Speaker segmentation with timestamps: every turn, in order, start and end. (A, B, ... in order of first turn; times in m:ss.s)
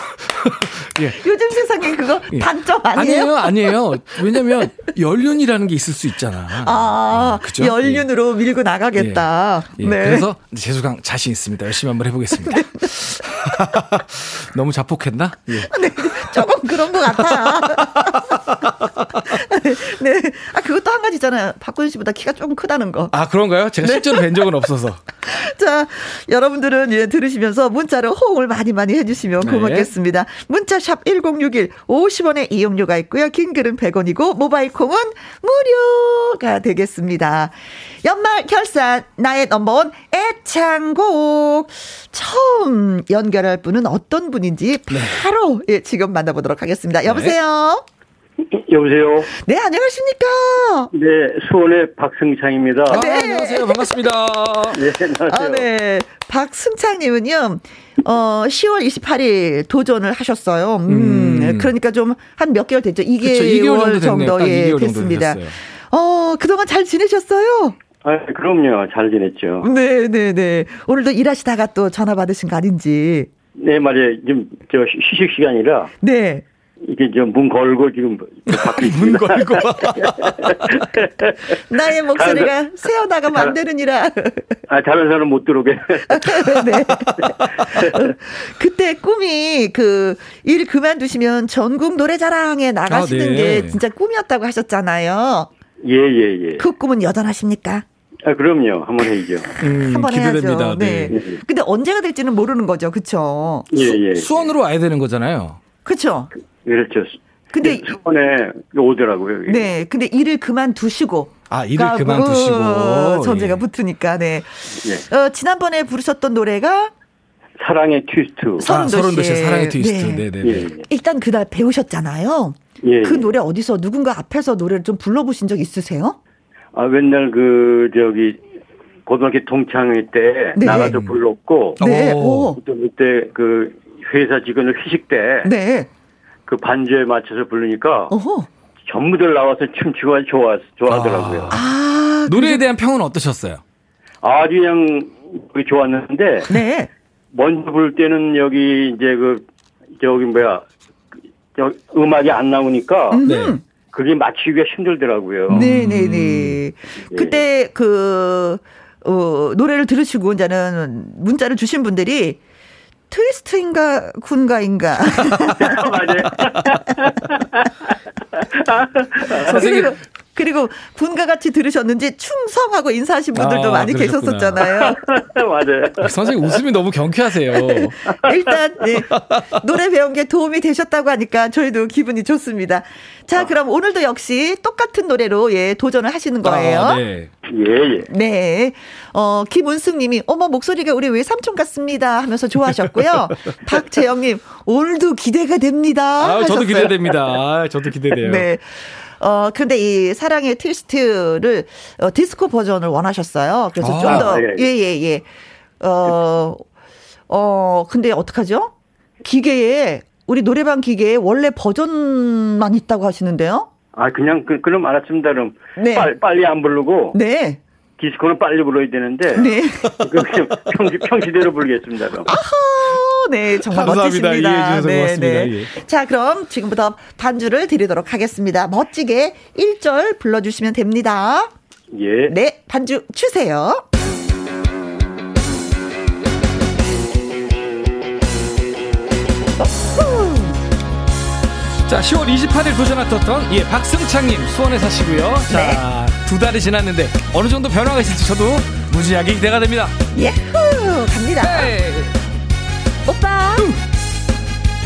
0:00.4-0:01.2 A
0:01.0-0:03.8 B
0:02.3-0:08.1 A
0:06.6-0:10.3 B
0:08.9-0:19.2 A
0:12.5-0:12.9 B
0:15.7-0:18.6 B
0:19.1-0:23.1 B
0:23.1-0:25.0 A
0:23.8-0:24.5 B
0:25.2-0:47.8 B
0:29.4-0:29.9 A
0:44.9-0:45.2 A
0:47.0-0:47.4 A
0:48.5-0:49.3 C
0:49.4-0:50.9 B
0:50.9-0:53.0 C
0:52.9-0:54.8 A
0:52.9-0:54.0 B
0:54.7-0:55.6 C
0:55.3-1:07.8 B
1:00.9-1:01.7 A
1:03.2-1:05.6 A
1:08.0-1:09.7 C
1:09.6-1:13.3 B
1:13.6-1:15.9 C
1:16.0-1:16.4 B
1:16.8-1:21.6 C
1:18.5-1:20.9 A
1:21.7-1:24.5 B
1:22.1-1:22.5 C
1:24.7-1:26.4 C
1:26.1-1:35.5 B
1:27.3-1:28.0 C
1:32.9-1:33.8 A
1:35.8-1:36.6 C
1:36.6-1:37.8 B
1:38.2-1:39.5 C
1:39.6-1:41.2 A
1:39.7-1:43.7 B
1:41.1-1:41.4 C
1:43.7-1:44.4 C
1:44.2-1:45.6 A
1:45.8-1:46.3 B
1:46.6-1:49.7 C
1:47.5-1:47.9 B
1:49.5-1:56.9 B
1:51.5-1:53.6 A
1:54.8-1:55.0 C
1:57.6-1:58.6 C
1:58.6-2:00.2 B
1:58.6-2:00.7 A
2:00.4-2:00.8 C
2:00.9-2:06.2 B
2:02.8-2:03.3 C
2:06.7-2:08.4 C
2:09.0-2:11.8 C
2:10.6-2:11.0 B
2:11.8-2:12.5 A
2:11.8-2:12.6 B
2:12.6-2:15.5 C
2:15.4-2:15.9 B
2:16.5-2:18.1 C
2:18.1-2:18.5 B
2:18.9-2:21.5 C
2:20.9-2:21.6 A
2:21.5-2:22.6 B
2:22.3-2:23.6 A
2:24.2-2:26.5 C
2:26.5-2:26.9 B
2:27.3-2:29.4 C
2:30.0-2:30.6 C
2:31.5-2:33.2 C
2:33.1-2:33.6 B
2:33.2-2:33.6 A
2:33.9-2:35.6 C
2:35.5-2:36.6 A
2:35.5-2:42.4 B
2:37.1-2:37.4 C
2:43.1-2:45.7 B
2:45.6-2:47.6 C
2:48.3-2:49.8 C
2:49.4-2:55.0 B
2:49.5-2:49.9 A
2:53.3-2:54.6 A
2:54.8-2:56.4 C
2:56.0-2:58.0 A
2:58.1-3:07.0 B
3:06.4-3:07.3 A
3:07.5-3:08.1 C
3:08.1-3:17.1 B
3:16.2-3:18.5 A
3:18.2-3:25.2 B
3:23.8-3:24.3 A
3:24.0-3:24.6 C
3:25.8-3:26.6 B
3:27.3-3:28.7 B
3:29.2-3:33.7 B
3:33.9-3:37.2 C
3:35.8-3:36.1 B
3:37.1-3:37.6 B
3:38.0-3:42.3 C
3:39.4-3:40.0 B
3:42.2-3:51.5 B
3:43.7-3:45.7 A
3:51.9-3:52.3 C
3:52.3-3:53.8 B
3:59.6-4:00.6 B
4:01.8-4:09.9 A
4:05.5-4:05.8 B
4:10.1-4:11.7 B
4:11.4-4:12.2 A
4:13.0-4:13.7 B